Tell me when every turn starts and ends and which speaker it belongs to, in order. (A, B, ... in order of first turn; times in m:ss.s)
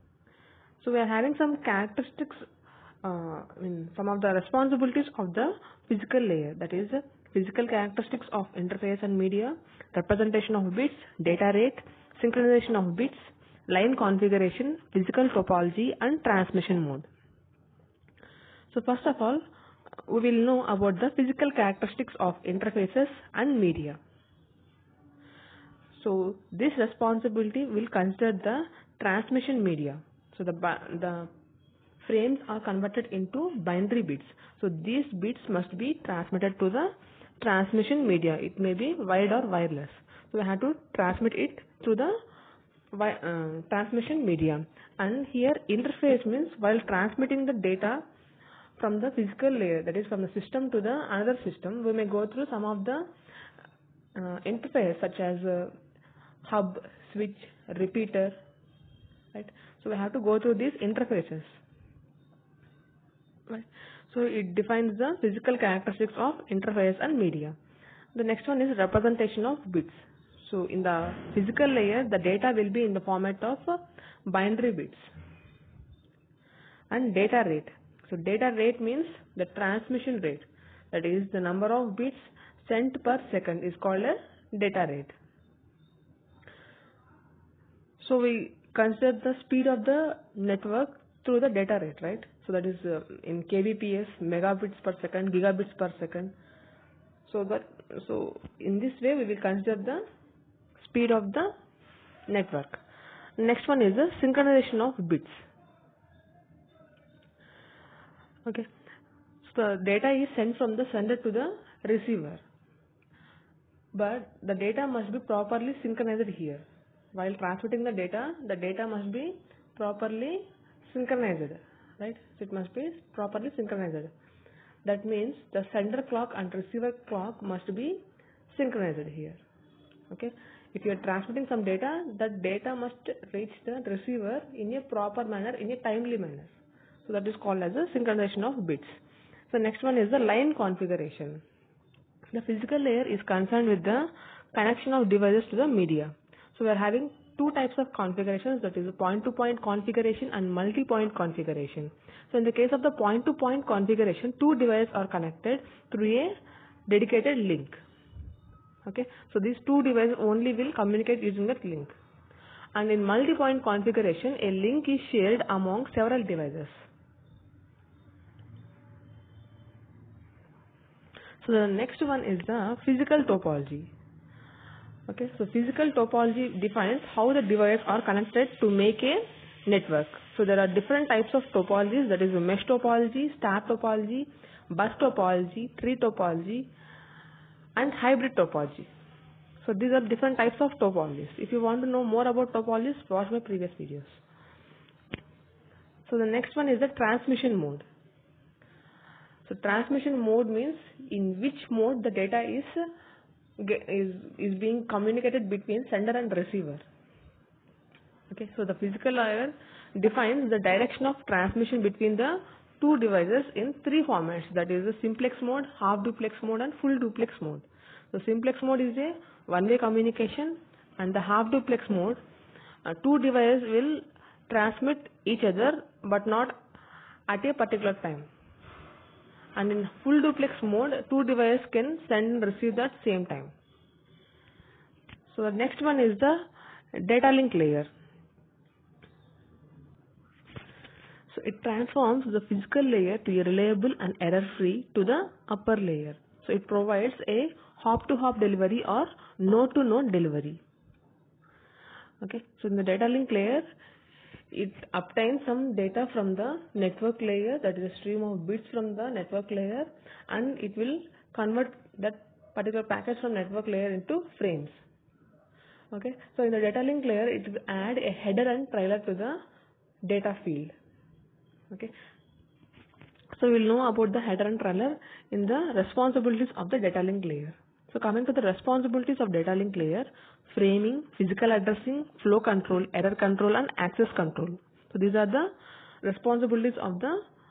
0:00.8-0:02.5 A
0:03.0-0:17.1 A
0:18.7-0:19.4 A
0:20.1-0:24.0 A
0:26.0-0:31.3 A
0:32.0-0:42.1 A
0:42.9-0:48.0 A
0:48.8-0:53.0 A
0:54.2-0:55.7 A
0:56.4-0:58.4 A
0:59.3-1:01.6 A
1:03.5-1:07.6 A
1:08.1-1:15.1 A
1:16.9-1:25.1 A
1:28.0-1:36.4 A
1:37.3-1:40.0 A
1:40.8-1:41.5 A
1:42.3-1:42.8 A
1:43.4-1:45.4 A
1:49.4-1:52.4 A
1:53.9-1:56.6 A
1:57.2-2:04.1 A
2:04.8-2:09.4 A
2:10.1-2:16.5 A
2:17.0-2:19.0 A
2:19.5-2:21.4 A
2:22.3-2:36.3 A
2:36.9-2:37.8 A
2:38.9-2:41.9 A
2:42.8-2:46.8 A
2:51.4-2:53.9 A
2:55.1-3:06.7 A
3:07.8-3:08.9 A
3:09.6-3:14.2 A
3:16.1-3:17.8 A
3:19.5-3:22.8 A
3:23.6-3:26.8 A
3:28.3-3:42.2 A
3:42.9-3:46.6 A
3:47.3-3:48.3 A
3:49.6-3:53.5 A
3:55.3-3:56.4 A
3:57.0-3:57.9 A
4:01.3-4:10.6 A
4:12.2-4:13.7 A
4:14.5-4:24.8 A
4:25.9-4:29.4 A
4:30.0-4:30.7 A
4:33.3-4:45.5 A
4:46.0-4:47.2 A